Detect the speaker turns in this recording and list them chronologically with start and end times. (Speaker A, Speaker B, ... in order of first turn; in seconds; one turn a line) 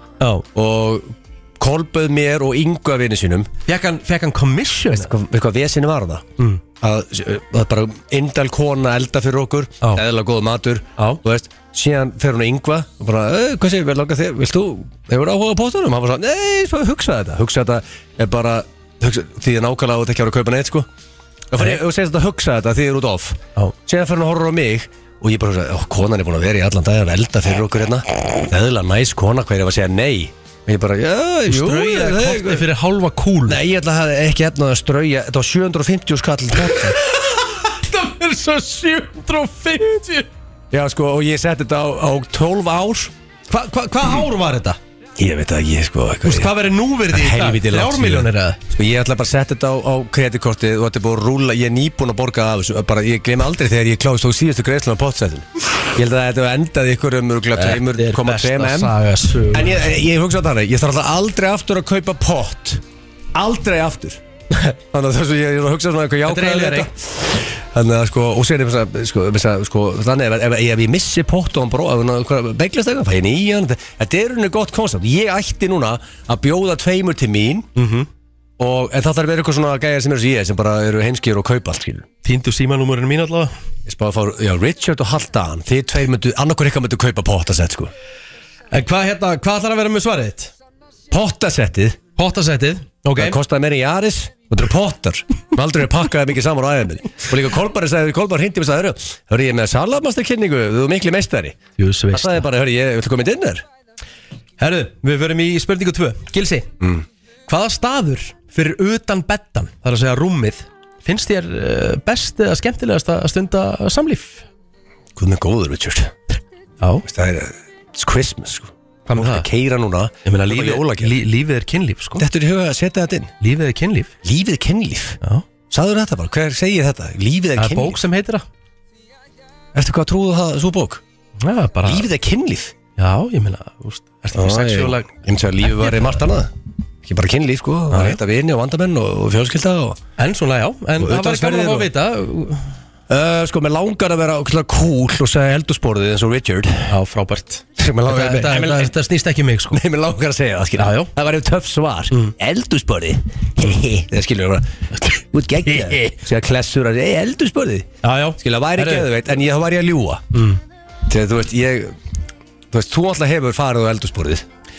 Speaker A: 0.2-0.4
Speaker B: 0.5-3.5
Speaker A: 3.7-5.1
Speaker B: 4.9-6.3
Speaker B: 6.8-20.9
Speaker B: 21.5-32.6
Speaker A: 31.5-33.6
Speaker B: 33.5-37.0
Speaker A: 37.0-40.3
Speaker B: 40.7-43.1
Speaker A: 43.5-44.8
Speaker B: 45.2-46.6
Speaker A: 46.2-48.6
Speaker B: 47.1-58.9
Speaker A: 57.5-59.8
Speaker B: 59.5-62.8
Speaker B: 63.3-77.7
Speaker A: 66.2-66.9
Speaker A: 77.8-78.1
Speaker B: 78.6-82.0
Speaker A: 82.2-83.5
Speaker B: 83.8-87.9
Speaker A: 88.7-90.5
Speaker B: 91.1-92.0
Speaker A: 92.2-93.4
Speaker B: 93.1-101.6
Speaker A: 101.8-102.5
Speaker B: 102.1-103.6
Speaker A: 104.6-106.7
Speaker B: 106.8-107.0
Speaker A: 107.5-114.4
Speaker B: 115.2-116.1
Speaker B: 117.0-121.2
Speaker A: 119.1-119.5
Speaker A: 120.2-122.2
Speaker B: 122.2-123.3
Speaker A: 123.4-124.1
Speaker B: 124.2-125.2
Speaker B: 125.7-128.0
Speaker A: 127.6-128.4
Speaker B: 129.7-131.0
Speaker A: 131.4-132.1
Speaker B: 131.8-132.7
Speaker A: 133.0-135.1
Speaker B: 134.3-140.0
Speaker A: 135.6-136.2
Speaker A: 137.9-138.2
Speaker A: 140.2-142.7
Speaker B: 141.0-141.9
Speaker B: 143.1-146.9
Speaker A: 146.9-149.8
Speaker B: 147.8-148.9
Speaker B: 149.7-160.2
Speaker A: 150.8-151.1
Speaker A: 155.7-156.1
Speaker A: 158.0-159.1
Speaker A: 160.3-160.6
Speaker B: 161.1-161.9
Speaker B: 162.7-164.4